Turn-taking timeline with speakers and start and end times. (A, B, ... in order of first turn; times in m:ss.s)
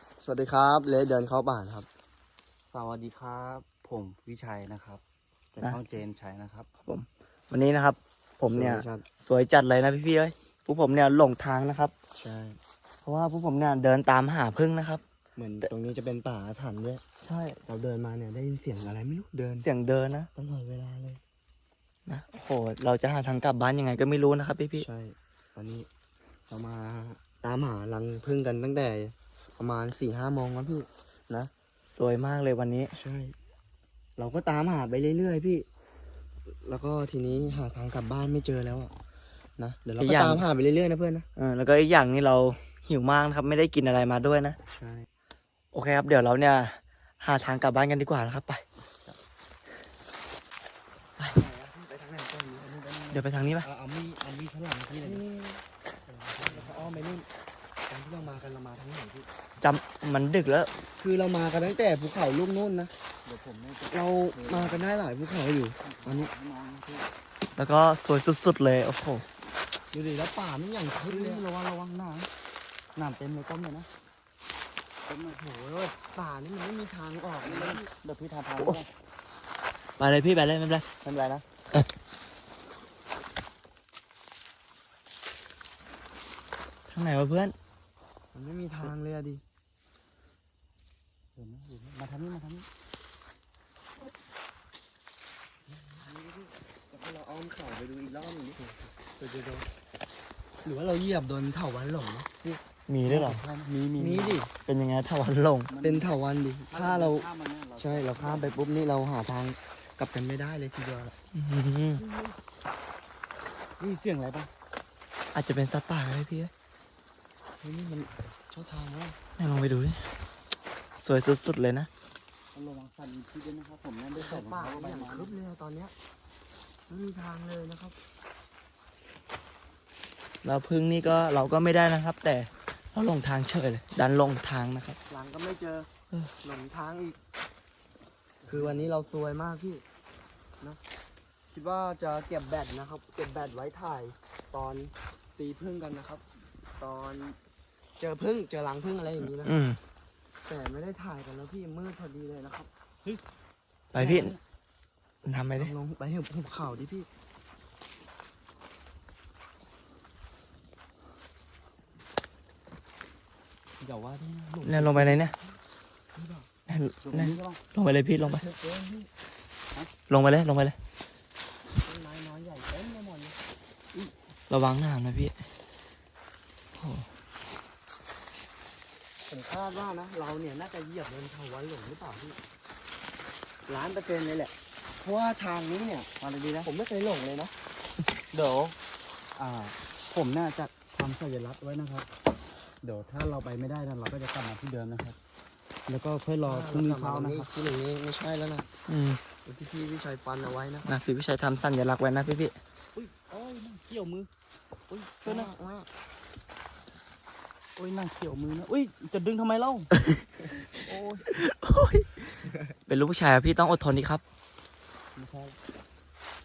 0:00.2-0:01.9 A
0:02.6-0:05.0 B
0:05.6-0:06.7 B
0:06.8-0:11.9 C
0:08.5-0:09.1 A
0:12.1-0:12.6 A
0:13.0-0:15.0 C
0:15.4-0:17.0 A
0:17.2-0:17.6 C
0:17.7-0:19.7 A
0:19.6-0:20.3 C
0:20.4-0:21.2 A
0:22.1-0:24.9 C
0:24.8-0:25.9 A
0:26.5-0:31.5 A
0:31.9-0:32.9 C
0:32.9-0:33.4 A
0:34.2-0:35.7 A
0:36.5-0:38.9 A
0:39.6-0:41.3 A
0:40.0-0:40.4 C
0:41.4-0:44.6 C
0:44.8-0:45.1 A
0:45.7-0:48.6 C
0:51.2-0:52.7 A
0:52.6-0:55.2 B
0:53.1-0:53.7 C
0:55.0-0:55.6 A
0:56.1-0:57.2 B
0:56.4-0:57.3 A
0:57.9-0:59.3 A
0:59.6-1:00.7 C
1:01.0-1:02.9 A
1:03.2-1:04.9 B
1:03.9-1:06.3 A
1:05.8-1:07.1 B
1:07.6-1:09.3 C
1:09.9-1:11.4 A
1:11.0-1:12.3 B
1:13.0-1:13.9 B
1:15.0-1:15.4 B
1:15.4-1:17.9 A
1:17.4-1:18.9 B
1:20.0-1:20.9 C
1:21.0-1:21.5 A
1:26.9-1:27.6 C
1:28.3-1:29.4 A
1:31.4-1:32.7 B
1:35.7-1:39.7 A
1:40.6-1:42.3 A
1:42.4-1:43.4 C
1:43.1-1:44.4 B
1:44.0-1:44.5 A
1:44.7-1:45.7 C
1:45.7-1:46.1 B
1:45.8-1:51.2 A
1:46.7-1:48.6 B
1:51.3-1:52.0 C
1:52.0-1:52.4 B
1:53.8-1:54.5 B
1:55.3-1:56.5 C
1:57.6-1:59.2 A
1:59.4-2:00.2 C
2:01.0-2:01.9 C
2:02.5-2:05.4 B
2:04.1-2:05.9 A
2:06.9-2:08.0 A
2:10.4-2:15.0 C
2:15.1-2:15.9 A
2:16.4-2:17.2 A
2:18.4-2:18.9 B
2:18.5-2:19.8 A
2:21.5-2:26.2 A
2:26.8-2:27.4 A
2:28.0-2:29.6 A
2:29.4-2:29.8 C
2:30.5-2:32.7 A
2:33.9-2:34.4 C
2:34.0-2:34.4 B
2:35.2-2:35.7 C
2:35.6-2:37.1 A
2:43.8-2:45.1 B
2:44.6-2:45.4 C
2:45.0-2:45.5 A
2:46.1-2:46.5 A
2:46.7-2:48.4 C
2:47.0-2:47.6 B
2:48.2-2:49.1 A
2:50.1-2:50.8 C
2:51.8-2:53.4 A
2:54.5-2:55.4 C
2:56.8-2:57.1 C
2:59.3-3:02.4 A
3:03.7-3:06.1 A
3:06.2-3:06.7 B
3:06.6-3:07.5 A
3:08.3-3:08.8 B
3:09.3-3:12.1 B
3:12.8-3:15.2 B
3:15.9-3:17.5 B
3:16.4-3:18.7 A
3:18.9-3:19.2 C
3:19.4-3:20.9 A
3:20.8-3:22.6 C
3:22.9-3:24.3 B
3:24.9-3:25.5 B
3:25.2-3:25.9 A
3:27.8-3:29.9 B
3:30.8-3:31.4 B
3:31.3-3:34.2 C
3:35.2-3:35.6 B